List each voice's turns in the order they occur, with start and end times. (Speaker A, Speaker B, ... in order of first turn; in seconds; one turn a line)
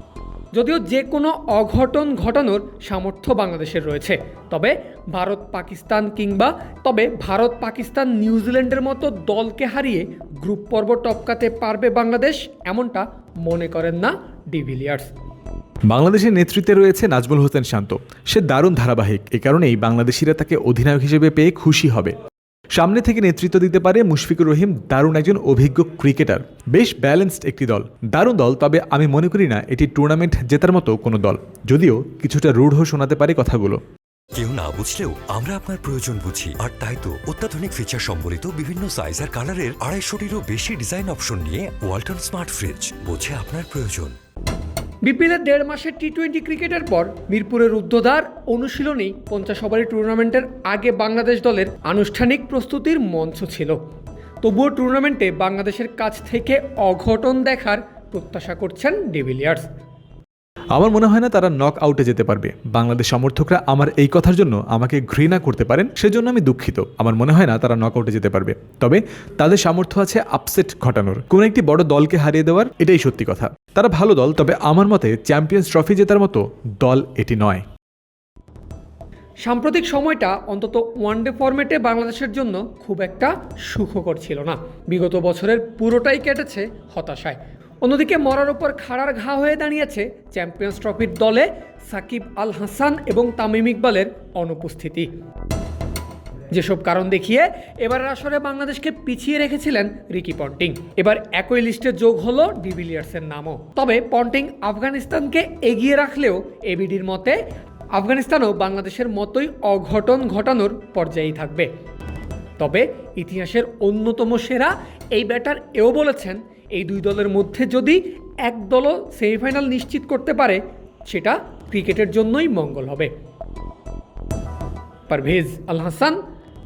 Speaker A: 0.5-15.1
Speaker B: 15.9-22.1
Speaker B: 22.7-33.8
Speaker C: 34.4-44.2
Speaker A: 45.0-53.8
Speaker A: 54.4-59.7
Speaker B: 60.7-77.6
Speaker A: 79.4-95.1
Speaker A: 96.5-107.4
Speaker A: 107.9-111.7
Speaker A: 112.6-123.1
Speaker A: 125.1-126.2